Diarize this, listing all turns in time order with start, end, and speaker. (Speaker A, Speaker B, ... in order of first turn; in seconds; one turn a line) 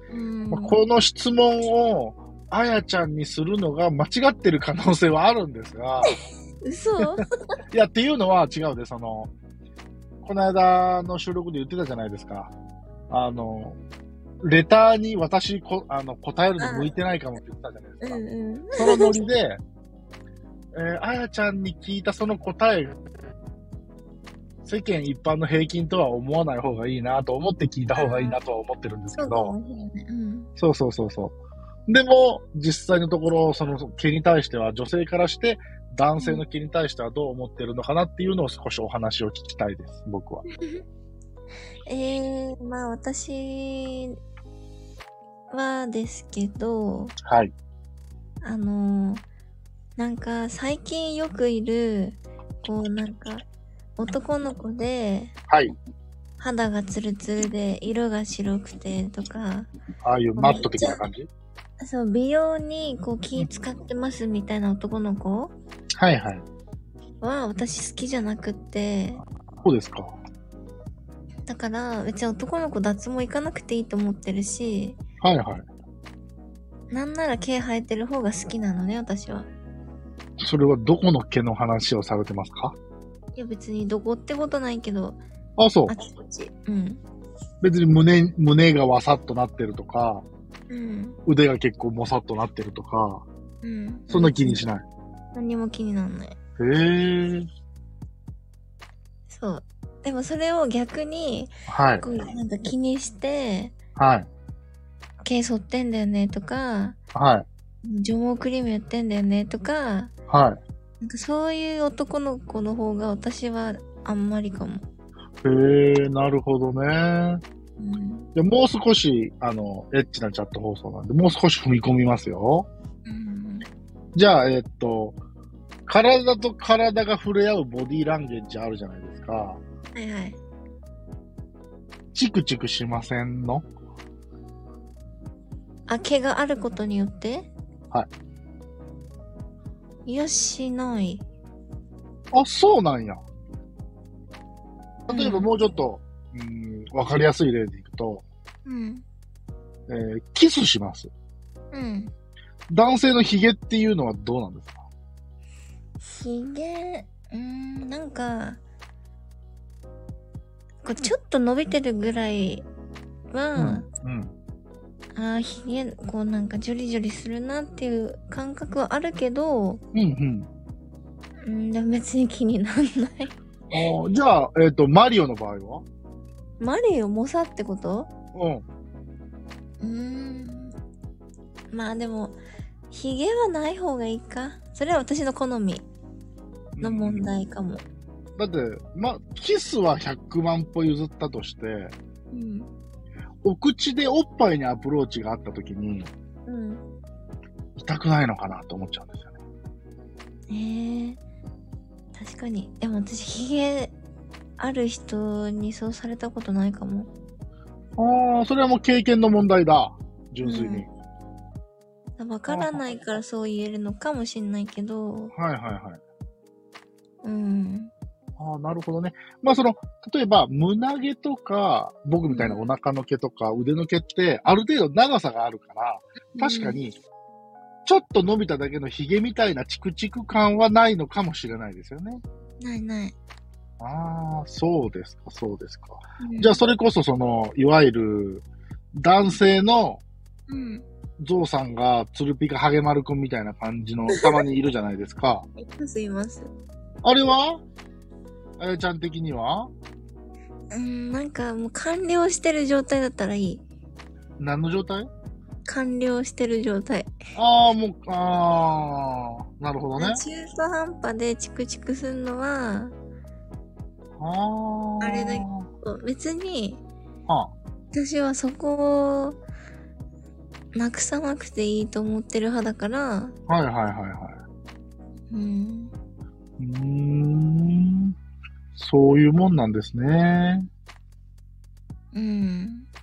Speaker A: 0.1-0.8
Speaker B: 0.5-6.2
Speaker A: 6.0-7.2
Speaker B: 7.7-9.3
Speaker B: 10.2-12.5
Speaker B: 13.1-13.8
Speaker B: 14.4-19.6
Speaker A: 16.6-17.0
Speaker A: 18.0-19.2
Speaker B: 20.7-23.0
Speaker B: 24.6-29.6
Speaker A: 27.9-28.4
Speaker A: 29.1-30.5
Speaker B: 30.6-31.4
Speaker B: 31.9-40.4
Speaker A: 36.2-36.4
Speaker A: 41.9-44.1
Speaker A: 45.5-47.1
Speaker B: 47.2-47.5
Speaker A: 48.4-49.2
Speaker A: 50.0-53.4
Speaker A: 54.0-55.3
Speaker B: 55.5-55.7
Speaker A: 56.4-59.7
Speaker B: 60.0-61.3
Speaker A: 60.4-61.0
Speaker A: 61.8-65.5
Speaker B: 66.0-66.5
Speaker A: 67.2-69.2
Speaker B: 69.6-70.2
Speaker A: 71.5-75.0
Speaker B: 75.2-75.7
Speaker A: 76.9-79.5
Speaker B: 80.4-82.8
Speaker A: 83.4-85.2
Speaker B: 85.6-86.0
Speaker A: 85.9-87.0
Speaker B: 87.6-90.2
Speaker A: 90.7-91.2
Speaker B: 91.2-93.2
Speaker A: 93.6-94.7
Speaker B: 94.1-94.8
Speaker A: 95.3-96.4
Speaker B: 96.6-97.5
Speaker A: 99.3-103.7
Speaker B: 101.7-102.1
Speaker B: 104.0-104.3
Speaker A: 105.2-107.0
Speaker B: 107.1-107.5
Speaker A: 107.8-110.1
Speaker B: 110.3-110.6
Speaker A: 111.0-114.8
Speaker B: 115.4-117.4
Speaker A: 117.8-118.3
Speaker B: 118.4-122.7
Speaker A: 123.1-123.7
Speaker B: 124.1-125.2
Speaker B: 125.9-129.6
Speaker A: 129.9-130.4
Speaker B: 132.1-133.7
Speaker A: 135.9-137.5
Speaker A: 140.1-141.2
Speaker B: 142.3-143.2
Speaker A: 145.1-145.5
Speaker B: 145.1-148.2
Speaker A: 148.7-149.1
Speaker B: 149.9-151.1
Speaker A: 151.7-152.1
Speaker B: 152.7-154.8
Speaker A: 156.0-158.6
Speaker A: 160.8-162.6
Speaker A: 163.3-163.9
Speaker B: 163.6-164.3
Speaker A: 165.1-169.8
Speaker B: 169.9-170.5
Speaker A: 171.4-173.3
Speaker B: 173.7-175.9
Speaker A: 176.6-178.1
Speaker B: 178.3-178.6
Speaker A: 179.8-180.7
Speaker A: 181.7-182.4
Speaker A: 182.9-185.9
Speaker B: 186.8-187.3
Speaker A: 186.8-187.8
Speaker B: 188.4-191.9
Speaker A: 192.3-192.7
Speaker B: 193.4-196.1
Speaker A: 196.5-196.8
Speaker B: 197.8-199.3
Speaker A: 200.5-201.2
Speaker A: 202.1-203.9
Speaker A: 204.6-207.1
Speaker B: 208.0-210.9
Speaker A: 210.4-210.9
Speaker A: 212.2-215.3
Speaker B: 212.5-212.8
Speaker B: 215.3-216.0
Speaker A: 217.2-217.9
Speaker B: 218.4-227.0
Speaker A: 222.3-222.7
Speaker A: 226.3-226.8
Speaker B: 227.9-232.2
Speaker A: 232.6-233.1
Speaker B: 233.8-238.4
Speaker A: 236.2-236.6
Speaker B: 239.0-240.0
Speaker A: 240.5-240.8
Speaker B: 241.2-245.5
Speaker A: 245.6-246.5
Speaker B: 247.0-247.6
Speaker B: 248.6-249.7
Speaker A: 250.7-253.6
Speaker B: 254.4-255.1
Speaker A: 255.6-257.1
Speaker B: 257.4-260.2
Speaker A: 260.0-262.9
Speaker B: 264.2-265.7
Speaker A: 265.0-266.8
Speaker B: 267.3-267.5
Speaker A: 267.9-269.4
Speaker A: 270.7-273.4
Speaker B: 273.5-274.4
Speaker A: 275.3-275.9
Speaker B: 276.6-278.1
Speaker B: 278.8-280.7
Speaker A: 282.1-282.9